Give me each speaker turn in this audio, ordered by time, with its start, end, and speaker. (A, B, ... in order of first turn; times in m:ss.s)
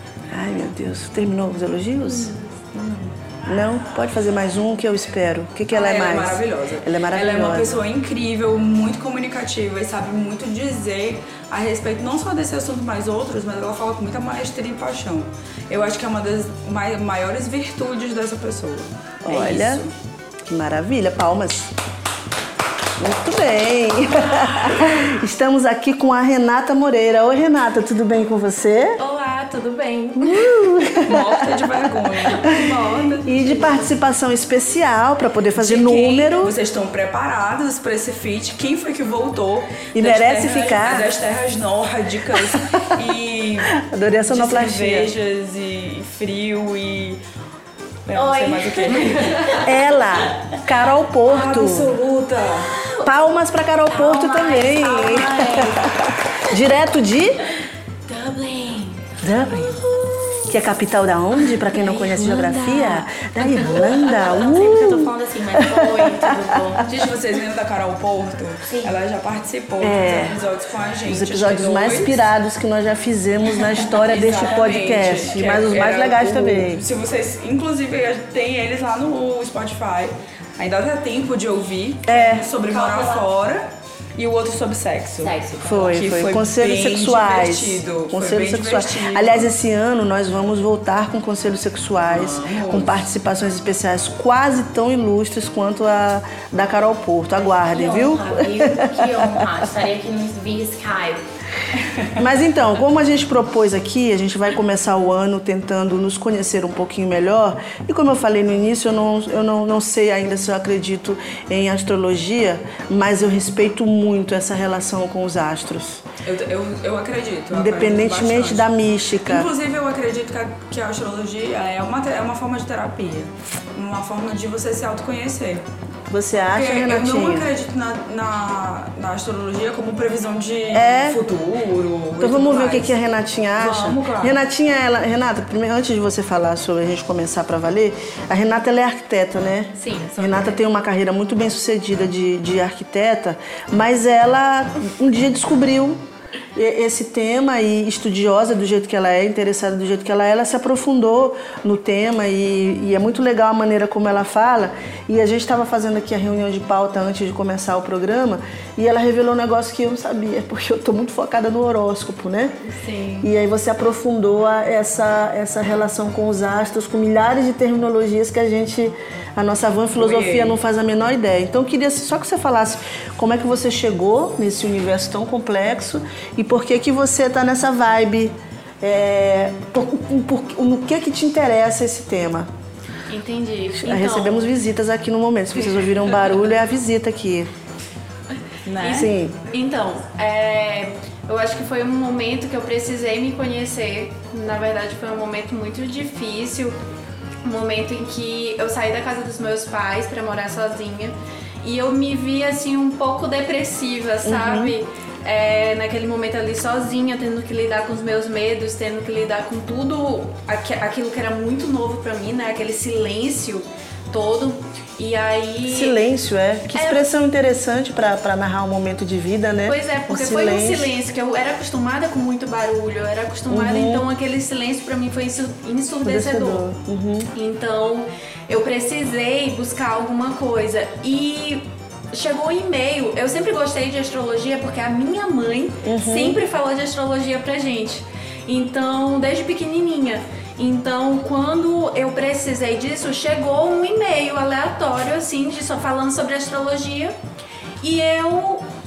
0:00.3-0:07.8 A
0:05.7-0:19.9 B
0:19.2-0:19.8 A
0:20.5-0:21.7 A
0:23.0-0:29.0 A
0:29.0-0:30.5 C
0:30.2-0:32.6 A
0:31.0-0:32.6 B
0:32.3-0:33.9 C
0:33.2-0:36.6 A
0:35.6-0:47.2 B
0:40.0-0:41.1 A
0:42.3-0:42.9 A
0:43.7-0:45.1 A
0:48.1-0:49.7 B
0:48.1-0:49.7 D
0:49.6-0:51.9 A
0:51.3-0:52.7 B
0:52.6-0:53.1 D
0:53.0-0:57.5 A
0:53.9-0:56.2 D
0:58.1-1:00.6 D
0:59.2-0:59.8 A
1:00.5-1:06.9 A
1:01.5-1:06.8 D
1:06.8-1:12.3 B
1:08.7-1:09.0 D
1:09.8-1:10.4 A
1:11.1-1:16.8 A
1:13.9-1:29.5 B
1:22.1-1:22.5 A
1:22.6-1:23.3 D
1:25.2-1:25.9 D
1:25.6-1:39.5 A
1:32.1-1:32.9 B
1:37.6-1:41.2 D
1:42.2-1:56.0 A
1:56.2-1:58.7 B
1:57.5-1:59.5 A
1:59.2-2:05.6 B
2:06.1-2:07.5 A
2:06.5-2:13.0 B
2:10.7-2:11.2 A
2:12.2-2:26.0 A
2:13.6-2:14.4 B
2:19.8-2:20.6 C
2:26.6-2:42.6 A
2:42.6-2:43.3 C
2:43.2-3:02.5 A
2:50.0-2:50.6 B
3:03.1-3:04.5 C
3:03.8-3:07.5 A
3:08.7-3:09.1 B
3:08.8-3:16.8 C
3:08.8-3:09.4 A
3:17.4-3:36.0 C
3:24.2-3:24.7 A
3:35.7-3:40.9 A
3:36.7-3:37.0 C
3:39.7-3:46.7 C
3:43.5-3:44.0 A
3:46.0-3:47.3 A
3:47.4-4:07.1 C
3:55.8-3:56.4 A
4:07.8-4:08.6 C